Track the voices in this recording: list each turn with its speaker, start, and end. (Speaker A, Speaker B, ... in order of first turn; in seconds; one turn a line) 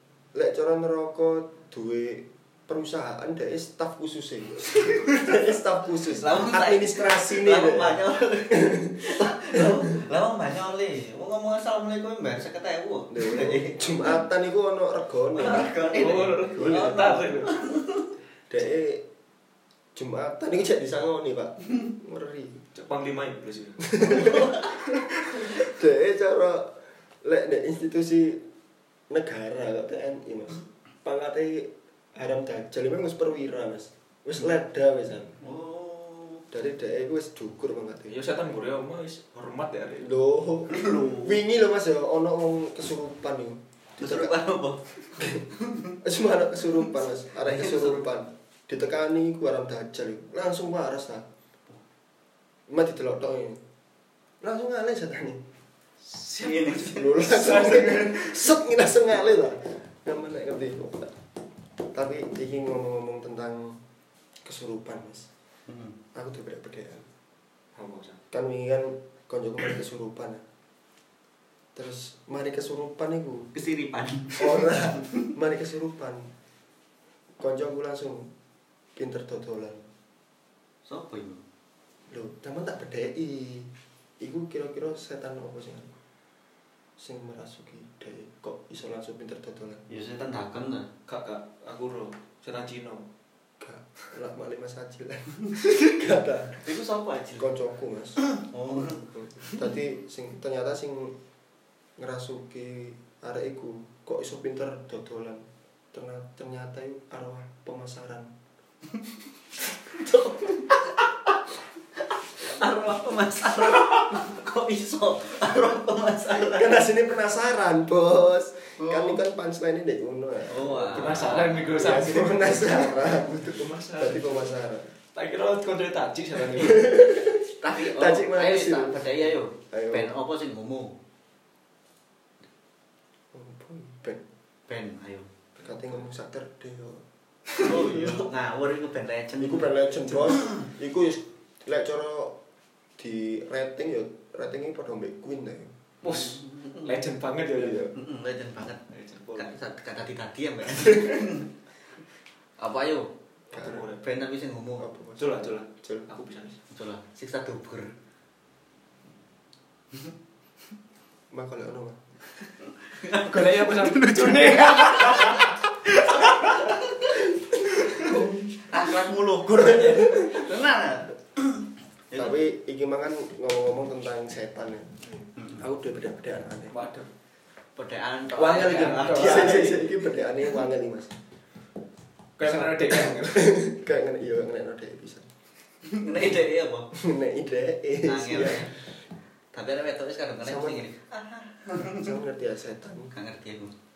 Speaker A: 0.3-9.8
Speaker B: 6.0-14.2
Speaker A: 13.1-15.8
Speaker B: 15.3-18.1
Speaker C: 15.9-17.6
Speaker A: 16.5-17.2
Speaker A: 18.5-19.0
Speaker A: 19.9-22.6
Speaker C: 22.7-24.4
Speaker A: 23.8-28.4
Speaker B: 24.1-24.6
Speaker A: 29.1-35.4
Speaker B: 35.4-36.5
Speaker A: 36.5-38.2
Speaker C: 38.1-40.1
Speaker A: 40.0-44.3
Speaker B: 40.7-41.4
Speaker B: 44.0-46.0
Speaker A: 45.2-45.4
Speaker A: 46.0-51.3
Speaker B: 47.4-48.1
Speaker A: 52.7-53.6
Speaker A: 54.4-55.4
Speaker C: 56.0-58.5
Speaker B: 56.4-57.2
Speaker A: 56.9-61.1
Speaker A: 61.9-63.8
Speaker A: 64.4-65.3
Speaker B: 65.7-66.0
Speaker A: 66.1-67.1
Speaker C: 67.8-68.2
Speaker A: 68.3-70.4
Speaker A: 71.8-73.5
Speaker B: 73.5-75.3
Speaker A: 74.4-76.3
Speaker A: 77.4-78.3
Speaker A: 79.0-79.8
Speaker B: 80.9-81.4
Speaker A: 82.1-85.9
Speaker A: 87.0-89.8
Speaker B: 89.9-90.9
Speaker C: 91.1-93.1
Speaker A: 93.6-96.6
Speaker B: 96.6-97.5
Speaker A: 97.4-98.2
Speaker B: 98.2-99.5
Speaker A: 98.7-101.2
Speaker A: 102.0-108.3
Speaker B: 109.9-110.9
Speaker B: 112.3-116.8
Speaker A: 116.3-124.9
Speaker B: 118.8-119.2
Speaker B: 120.5-121.7
Speaker C: 120.9-124.5
Speaker C: 125.1-127.0
Speaker A: 126.5-129.1
Speaker B: 127.6-131.0
Speaker A: 129.7-130.1
Speaker A: 133.3-134.2
Speaker B: 134.7-135.3
Speaker C: 135.6-135.9
Speaker A: 135.6-137.0
Speaker B: 137.6-140.6
Speaker A: 137.6-138.2
Speaker A: 139.4-142.4
Speaker A: 143.0-145.7
Speaker C: 146.0-147.9
Speaker B: 146.0-147.0
Speaker A: 147.6-147.9
Speaker B: 147.9-148.8
Speaker C: 148.9-149.6
Speaker B: 149.3-151.5
Speaker B: 152.6-153.1
Speaker C: 153.5-154.1
Speaker A: 153.5-153.9
Speaker B: 154.0-154.9
Speaker A: 154.8-156.1
Speaker C: 155.2-156.6
Speaker B: 156.7-157.9
Speaker A: 161.3-162.0
Speaker B: 162.9-165.4
Speaker C: 163.3-166.8
Speaker A: 164.2-164.5
Speaker B: 166.2-166.8
Speaker A: 168.0-168.3
Speaker B: 168.1-172.4
Speaker A: 169.6-170.5
Speaker A: 172.1-174.9
Speaker A: 175.6-176.8
Speaker C: 176.7-177.1
Speaker B: 177.8-179.8
Speaker C: 178.4-179.9
Speaker A: 178.9-181.2
Speaker C: 182.4-183.5
Speaker A: 182.4-185.3
Speaker B: 185.8-186.9
Speaker A: 186.9-188.8
Speaker B: 188.0-188.8
Speaker B: 189.5-192.1
Speaker A: 190.4-190.8
Speaker A: 191.8-193.1
Speaker B: 193.1-193.7